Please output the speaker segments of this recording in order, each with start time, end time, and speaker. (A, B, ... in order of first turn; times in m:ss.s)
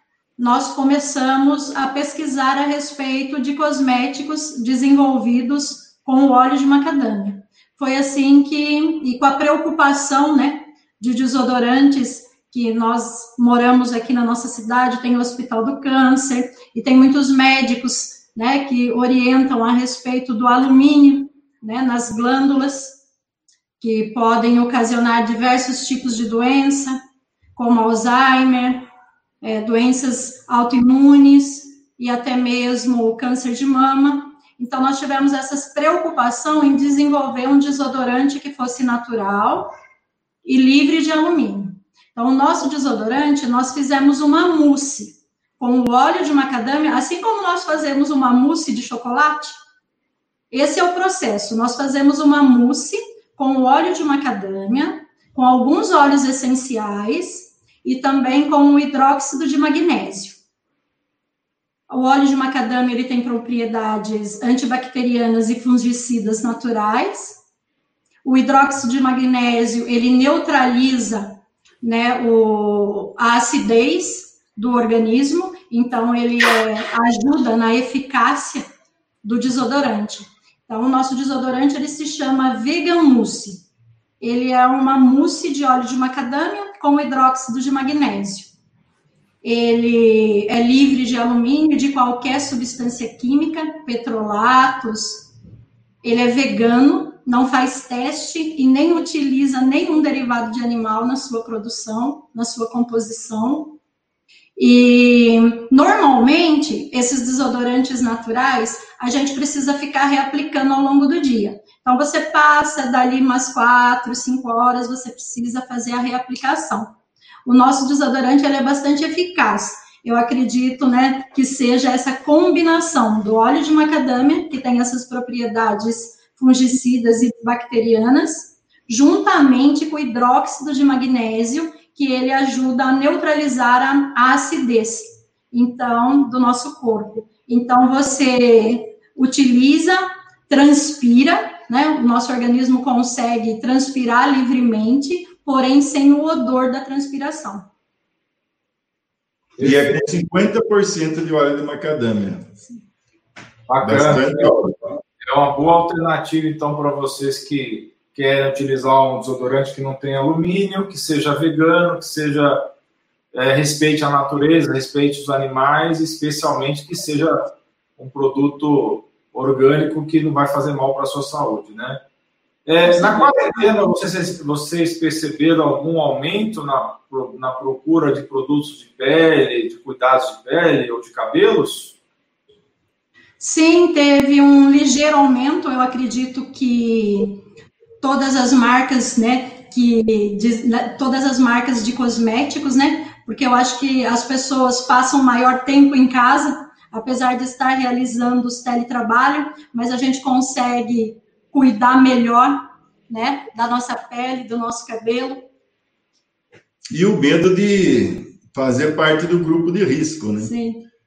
0:00.4-0:23.0 A
0:23.8-0:27.0 A
0:27.6-0:28.9 A
0:29.4-0:39.7 A
0:40.4-0:49.6 A
0:50.5-1:00.4 A
1:01.9-1:07.4 A
1:08.2-1:18.7 A
1:19.2-1:23.6 A
1:24.2-1:28.5 A
1:29.4-1:35.3 A
1:36.0-1:43.8 A
1:44.6-1:56.9 A
1:57.4-2:27.7 A
2:29.6-2:30.0 B
2:29.6-2:32.5 C
2:33.7-2:34.6 B
2:33.8-2:35.0 C
2:35.2-2:42.7 B
2:43.3-2:52.0 B
2:52.7-3:02.0 B
2:52.9-2:53.7 A
3:03.4-3:07.4 A
3:08.0-3:25.4 A
3:26.9-3:30.5 C
3:30.4-3:30.8 A